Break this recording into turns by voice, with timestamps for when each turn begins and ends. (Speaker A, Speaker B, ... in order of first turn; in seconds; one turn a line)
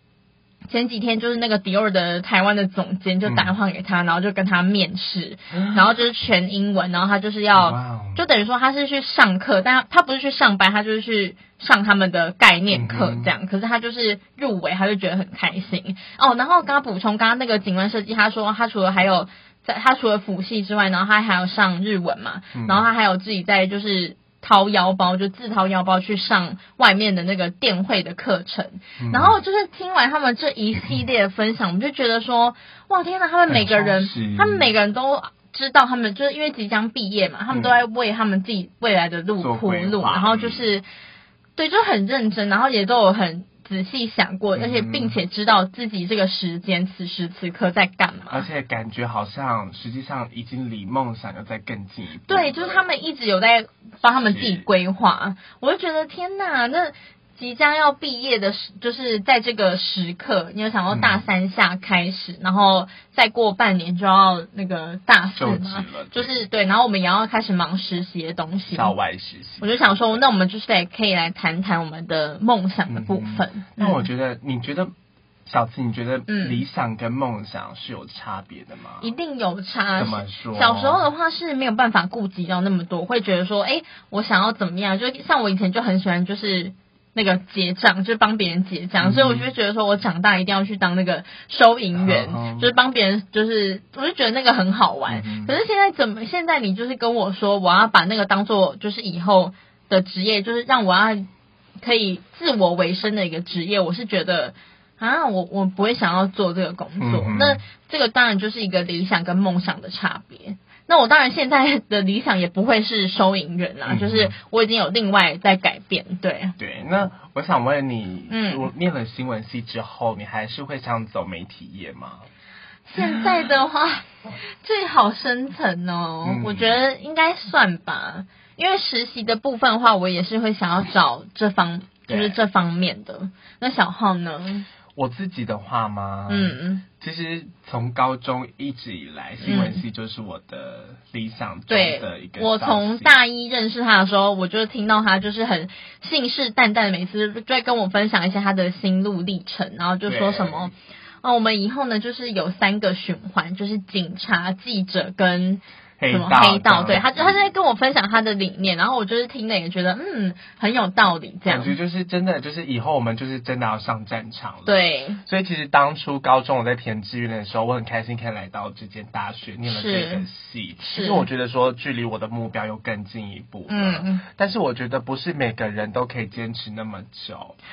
Speaker A: 0.7-40.8
Speaker B: 3.2-3.5
Speaker B: 5.5-5.9
Speaker B: 7.5-8.2
Speaker B: 12.7-13.3
Speaker B: 22.5-22.9
Speaker B: 29.0-29.4
Speaker B: 33.5-34.7
Speaker B: 37.5-37.8
Speaker B: 39.4-40.7
Speaker A: 41.5-48.4
Speaker B: 44.5-45.2
Speaker B: 48.3-52.8
Speaker A: 52.3-68.9
Speaker B: 54.3-54.6
Speaker B: 60.9-61.2
Speaker B: 65.3-66.3
Speaker B: 68.7-70.2
Speaker A: 69.6-74.0
Speaker B: 72.9-74.9
Speaker B: 75.5-79.1
Speaker A: 76.3-76.6
Speaker A: 79.0-101.3
Speaker B: 80.0-81.0
Speaker B: 89.0-89.5
Speaker B: 91.9-92.7
Speaker B: 95.1-95.5
Speaker A: 101.8-116.5
Speaker B: 107.0-107.6
Speaker B: 113.9-114.3
Speaker B: 116.6-122.2
Speaker A: 118.3-118.7
Speaker A: 122.9-124.0
Speaker B: 123.0-123.4
Speaker A: 124.6-134.7
Speaker B: 126.2-126.8
Speaker B: 132.1-132.4
Speaker B: 134.9-143.1
Speaker A: 136.3-136.8
Speaker A: 139.4-139.8
Speaker A: 141.7-161.7
Speaker B: 150.1-150.7
Speaker B: 156.0-157.5
Speaker B: 161.5-177.5
Speaker A: 164.7-165.2
Speaker A: 169.7-170.2
Speaker A: 170.8-171.2
Speaker A: 173.7-174.2